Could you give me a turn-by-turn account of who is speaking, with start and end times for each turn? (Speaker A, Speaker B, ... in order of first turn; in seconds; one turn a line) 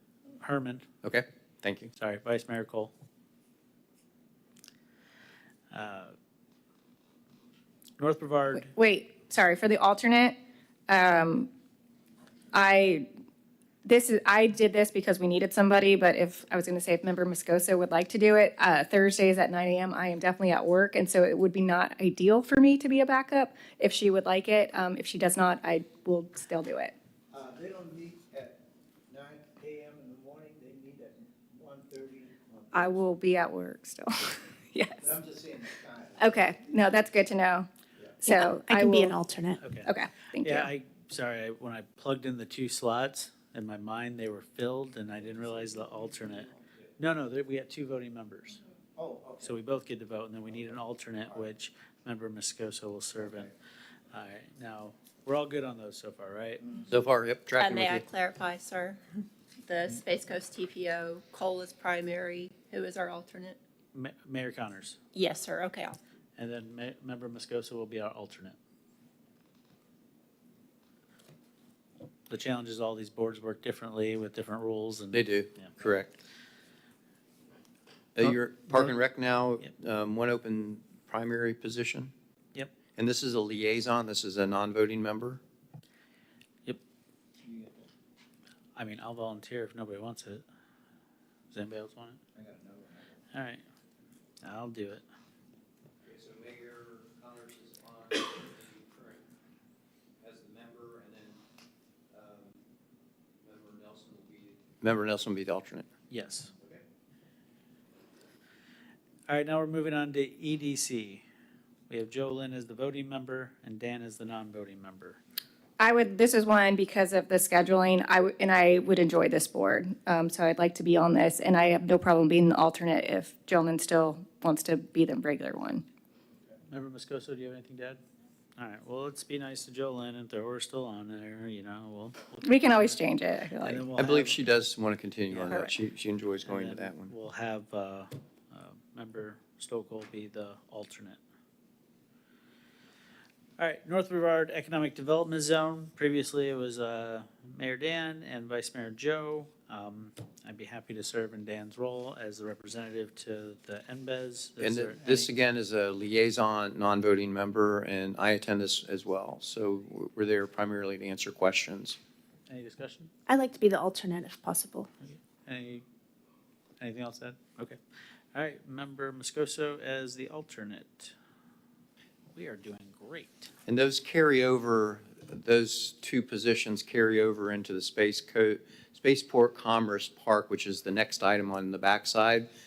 Speaker A: 0.4-0.8
Speaker B: 1.0-1.9
Speaker A: 2.0-2.9
Speaker A: 5.7-6.1
Speaker A: 8.0-8.7
Speaker C: 8.6-10.3
Speaker C: 10.9-11.5
Speaker C: 12.5-13.1
Speaker C: 13.8-26.9
Speaker D: 27.3-32.9
Speaker C: 32.7-35.0
Speaker D: 35.0-36.6
Speaker C: 36.2-37.7
Speaker C: 38.2-39.2
Speaker E: 38.3-39.6
Speaker A: 39.6-48.6
Speaker C: 39.8-40.7
Speaker D: 46.4-46.8
Speaker D: 49.0-49.5
Speaker A: 49.4-53.5
Speaker A: 54.1-56.6
Speaker B: 56.9-58.0
Speaker F: 57.6-59.0
Speaker F: 59.7-63.6
Speaker A: 63.9-65.0
Speaker F: 65.1-66.0
Speaker A: 66.4-68.5
Speaker A: 72.3-75.7
Speaker B: 75.1-76.1
Speaker B: 78.2-82.1
Speaker A: 78.2-78.9
Speaker B: 83.0-85.4
Speaker D: 87.4-87.9
Speaker A: 88.8-90.4
Speaker A: 91.5-92.2
Speaker D: 92.3-93.2
Speaker A: 93.3-93.6
Speaker A: 94.4-95.0
Speaker B: 96.0-99.2
Speaker B: 100.2-101.4
Speaker B: 102.1-102.6
Speaker B: 103.4-105.8
Speaker A: 106.1-106.5
Speaker A: 109.3-111.2
Speaker A: 111.9-115.2
Speaker C: 115.8-125.8
Speaker A: 126.7-128.0
Speaker A: 128.6-133.0
Speaker C: 132.4-133.9
Speaker A: 133.6-134.4
Speaker B: 134.0-137.1
Speaker A: 135.3-135.7
Speaker A: 136.4-141.2
Speaker A: 143.6-155.3
Speaker B: 154.6-162.0
Speaker A: 162.5-163.1
Speaker E: 163.3-164.9
Speaker A: 165.0-165.8
Speaker A: 166.8-167.8
Speaker A: 168.3-171.1
Speaker A: 172.3-173.5
Speaker B: 173.7-182.5